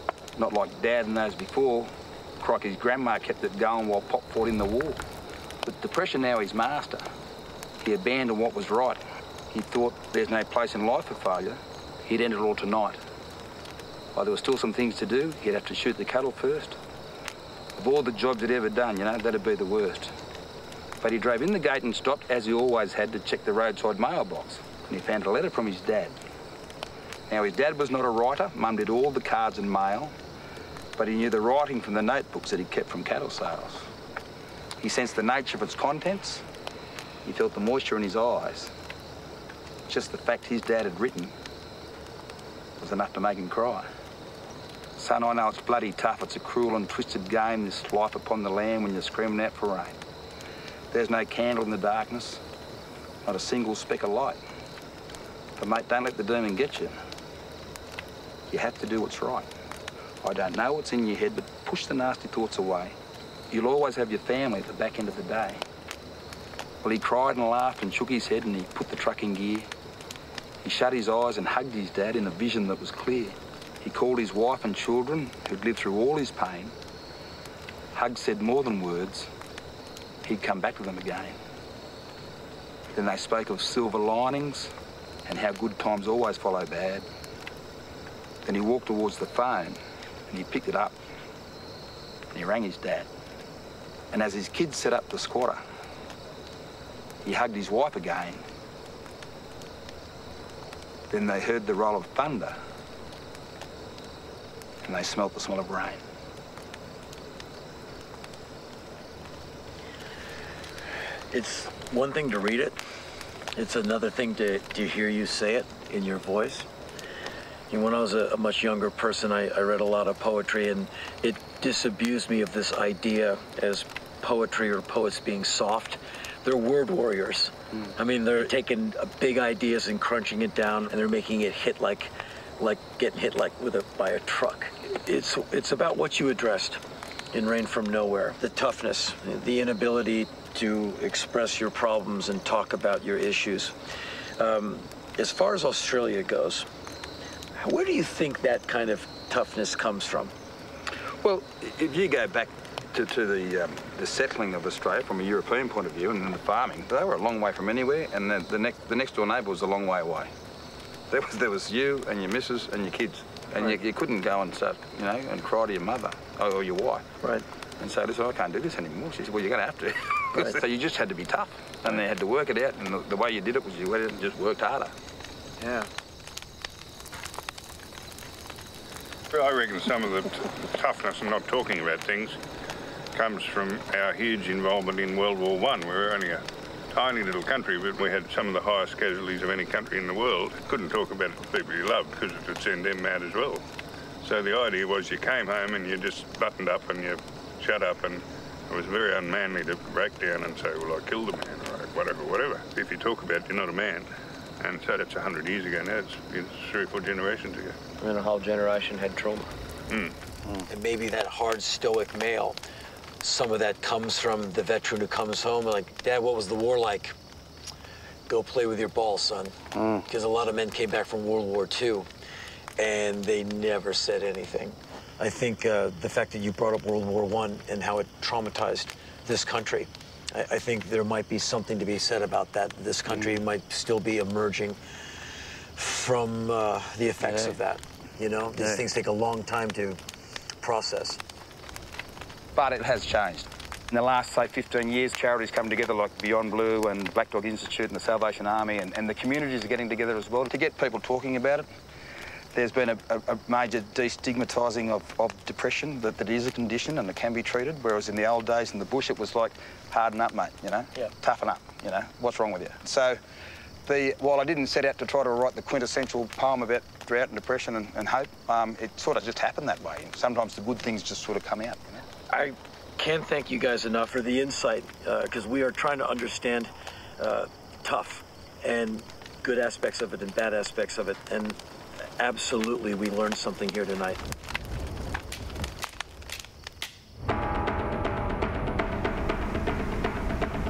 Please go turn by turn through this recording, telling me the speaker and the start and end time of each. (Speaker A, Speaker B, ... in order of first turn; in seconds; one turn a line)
Speaker A: 0.3-5.0
Speaker A: 5.6-7.0
Speaker A: 7.8-13.0
Speaker A: 14.1-16.8
Speaker A: 17.8-20.1
Speaker A: 21.0-26.2
Speaker A: 27.3-30.1
Speaker A: 30.9-33.9
Speaker A: 34.8-36.4
Speaker A: 37.2-38.7
Speaker A: 39.9-41.3
Speaker A: 42.8-43.9
Speaker A: 45.0-50.0
Speaker A: 50.9-52.4
Speaker A: 53.2-54.4
Speaker A: 55.6-57.0
Speaker A: 58.5-59.5
Speaker A: 60.2-62.9
Speaker A: 63.5-65.6
Speaker A: 66.8-69.7
Speaker A: 70.6-76.7
Speaker A: 77.9-79.3
Speaker A: 80.2-81.3
Speaker A: 82.9-84.7
Speaker A: 85.2-87.0
Speaker A: 88.4-91.0
Speaker A: 92.3-93.1
Speaker A: 94.1-95.6
Speaker A: 97.2-98.4
Speaker A: 101.1-102.5
Speaker A: 104.8-106.0
Speaker B: 111.3-112.8
Speaker B: 113.5-116.7
Speaker B: 117.7-143.7
Speaker B: 144.4-146.7
Speaker B: 147.5-150.3
Speaker A: 151.2-160.3
Speaker A: 161.1-167.1
Speaker A: 167.8-174.9
Speaker C: 179.3-182.4
Speaker C: 183.1-193.6
Speaker C: 194.2-204.1
Speaker C: 204.6-207.8
Speaker B: 208.0-209.5
Speaker C: 209.9-210.2
Speaker B: 210.7-212.6
Speaker B: 213.2-217.1
Speaker B: 218.3-219.6
Speaker A: 219.7-220.0
Speaker B: 220.1-222.1
Speaker B: 222.8-234.8
Speaker B: 235.8-240.0
Speaker B: 240.6-241.2
Speaker A: 242.6-251.7
Speaker A: 252.5-263.2
Speaker A: 263.9-272.0
Speaker B: 272.3-281.6
Speaker B: 282.2-284.2